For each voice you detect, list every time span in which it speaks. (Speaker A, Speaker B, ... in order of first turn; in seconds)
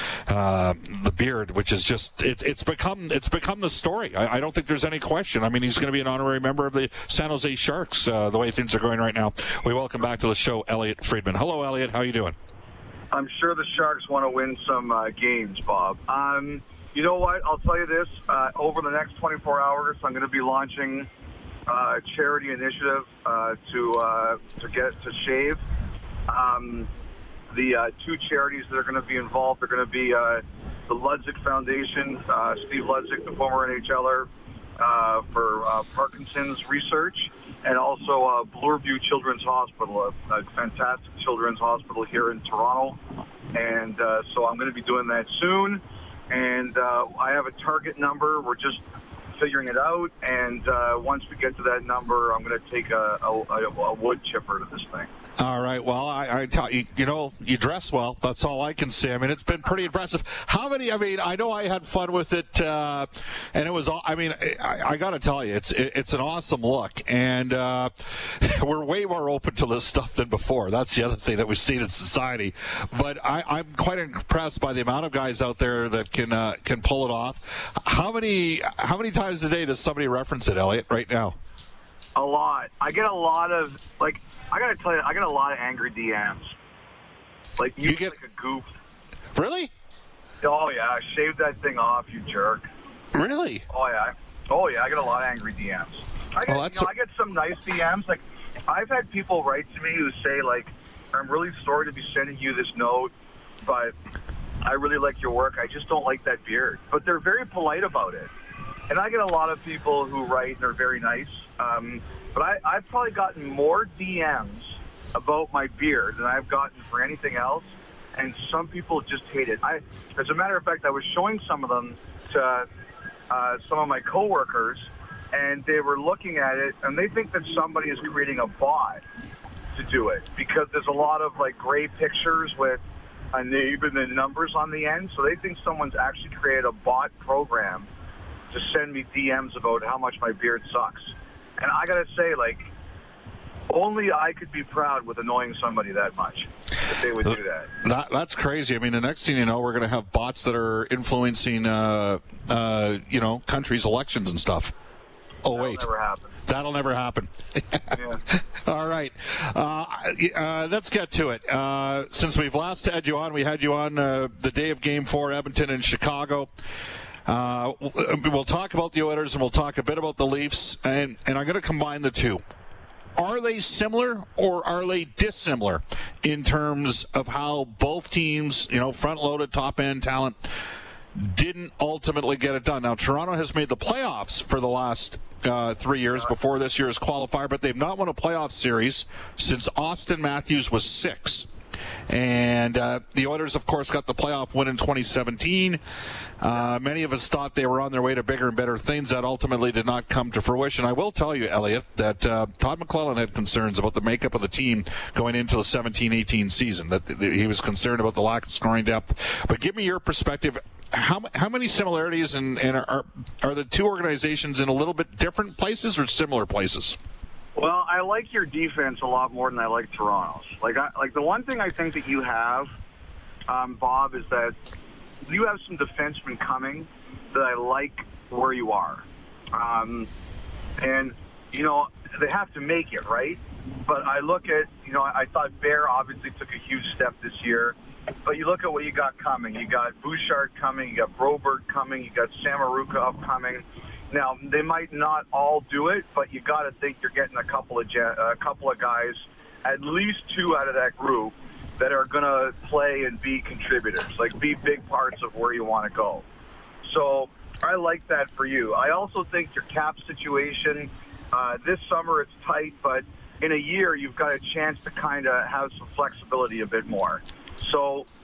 Speaker A: 0.3-12.3, 55.4-81.3, 87.8-88.2, 89.3-89.7, 93.1-93.6, 96.5-96.9, 147.3-154.7, 155.4-155.8, 156.4-166.5, 167.2-172.4, 173.2-180.4, 181.2-191.5, 192.1-195.8, 196.4-217.0
Speaker B: 13.1-21.1, 21.7-25.6, 26.3-26.9, 27.5-43.0, 43.5-48.8, 49.3-55.1, 82.1-86.5, 87.6-88.7, 90.4-92.7, 93.7-103.9, 104.6-108.3, 108.9-122.7, 123.3-129.0, 129.7-132.8, 133.3-137.9, 138.5-142.7, 143.7-147.7, 155.5-156.4, 157.9-158.2, 217.6-222.7, 223.5-224.5, 225.2-230.1, 230.8-256.2, 256.8-268.1